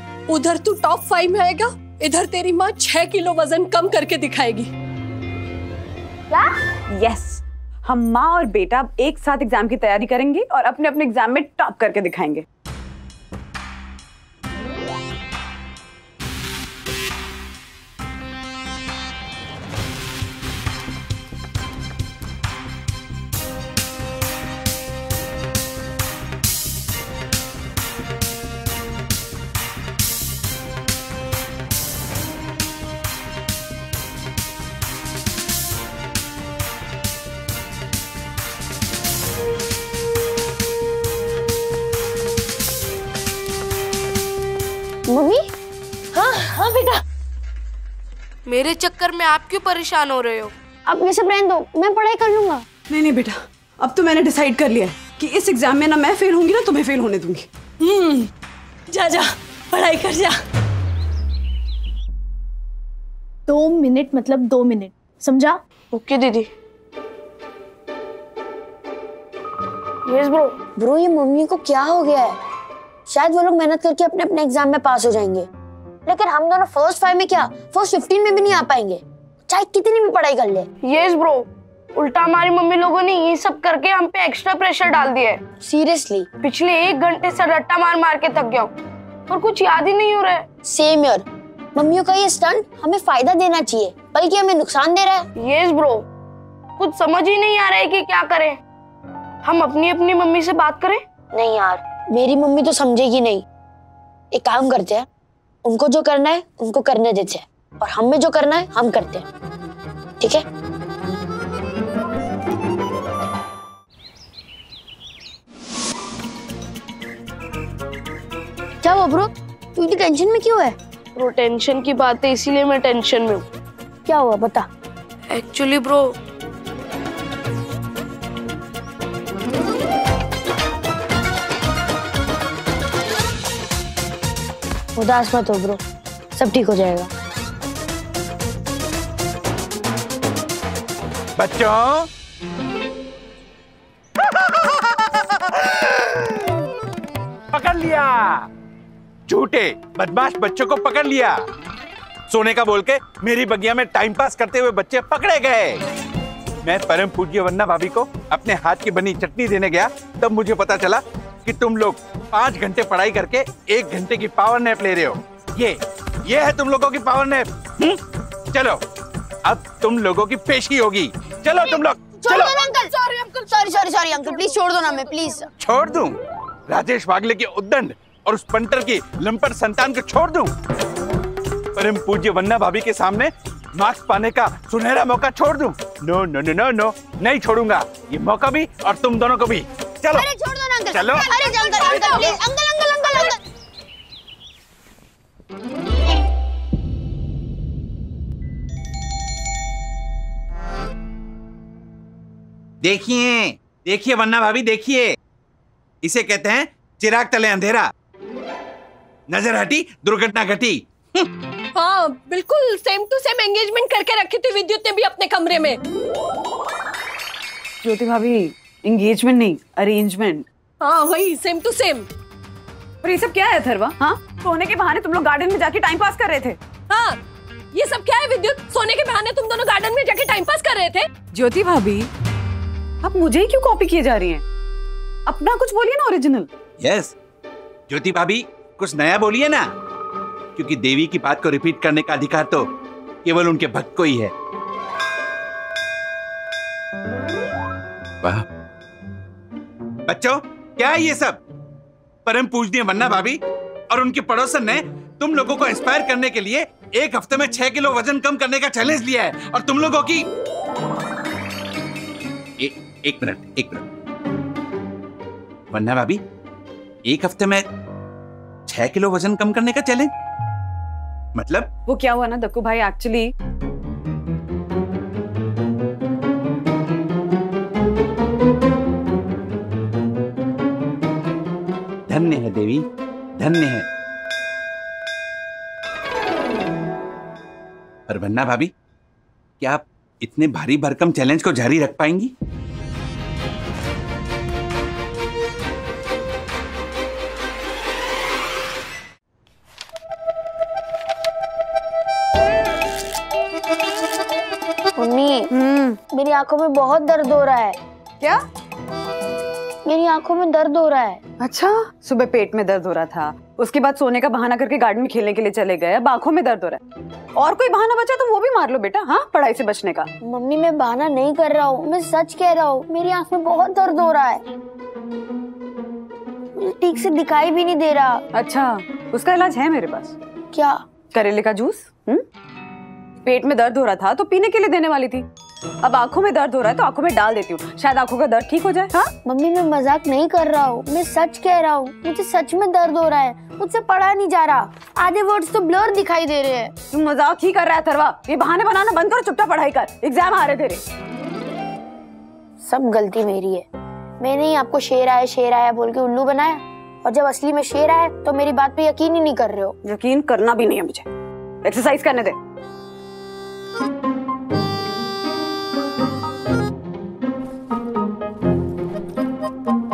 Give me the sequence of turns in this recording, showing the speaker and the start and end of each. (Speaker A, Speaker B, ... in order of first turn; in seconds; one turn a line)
Speaker A: 0.3-4.7
Speaker B: 6.9-12.4
Speaker C: 45.1-45.4
Speaker A: 46.1-47.0
Speaker D: 48.5-50.5
Speaker C: 50.9-52.6
Speaker B: 52.9-57.5
Speaker A: 57.8-58.3
Speaker A: 58.9-60.3
Speaker E: 63.5-65.6
Speaker D: 65.9-66.5
Speaker D: 70.0-70.5
Speaker C: 70.8-72.4
Speaker C: 73.1-75.5
Speaker C: 76.0-80.7
Speaker D: 80.8-85.4
Speaker C: 85.6-86.3
Speaker D: 86.4-88.7
Speaker D: 89.3-90.4
Speaker C: 90.6-95.3
Speaker D: 95.4-96.0
Speaker D: 96.8-98.6
Speaker D: 99.4-101.1
Speaker C: 101.3-103.4
Speaker C: 104.3-105.1
Speaker C: 105.6-109.2
Speaker C: 118.8-120.8
Speaker D: 121.1-123.4
Speaker C: 124.0-124.7
Speaker D: 125.3-126.1
Speaker C: 134.9-135.8
Speaker C: 136.3-137.1
Speaker F: 141.4-142.1
Speaker F: 144.2-146.4
Speaker F: 147.5-148.4
Speaker F: 149.3-151.4
Speaker F: 152.3-155.8
Speaker F: 156.6-168.0
Speaker F: 168.5-168.8
Speaker F: 169.4-172.5
Speaker C: 171.6-172.9
Speaker D: 172.4-175.4
Speaker C: 173.4-175.5
Speaker F: 175.6-180.5
Speaker F: 181.8-190.3
Speaker C: 190.1-193.4
Speaker F: 190.9-191.3
Speaker F: 202.8-205.1
Speaker F: 206.0-207.9
Speaker F: 209.3-211.3
Speaker A: 211.7-215.8
Speaker B: 217.8-220.5
Speaker A: 220.8-222.1
Speaker B: 223.0-226.6
Speaker A: 226.9-227.2
Speaker A: 227.7-231.1
Speaker B: 231.3-232.1
Speaker B: 233.0-234.4
Speaker B: 235.3-236.5
Speaker F: 236.8-237.1
Speaker F: 237.9-239.7
Speaker F: 240.6-242.7
Speaker F: 243.2-244.3
Speaker F: 250.1-251.4
Speaker F: 252.2-253.4
Speaker F: 253.9-260.3
Speaker F: 262.6-263.8
Speaker F: 265.7-266.2
Speaker F: 267.1-267.6
Speaker F: 268.7-270.1
Speaker F: 271.3-271.7
Speaker B: 271.9-273.3
Speaker F: 282.1-282.8
Speaker F: 283.4-283.9
Speaker F: 288.1-288.7
Speaker F: 289.6-292.3
Speaker C: 305.0-305.5
Speaker B: 305.5-306.0
Speaker C: 306.1-307.8
Speaker C: 309.8-311.2
Speaker B: 311.4-316.8
Speaker B: 317.4-320.1
Speaker C: 320.2-324.4
Speaker C: 326.6-328.2
Speaker B: 328.3-330.1
Speaker C: 330.5-330.8
Speaker B: 331.1-332.2
Speaker B: 333.2-335.2
Speaker B: 335.8-339.1
Speaker C: 339.2-346.7
Speaker B: 346.9-350.8
Speaker C: 352.6-353.6
Speaker C: 354.2-359.8
Speaker B: 359.8-361.1
Speaker B: 361.6-362.4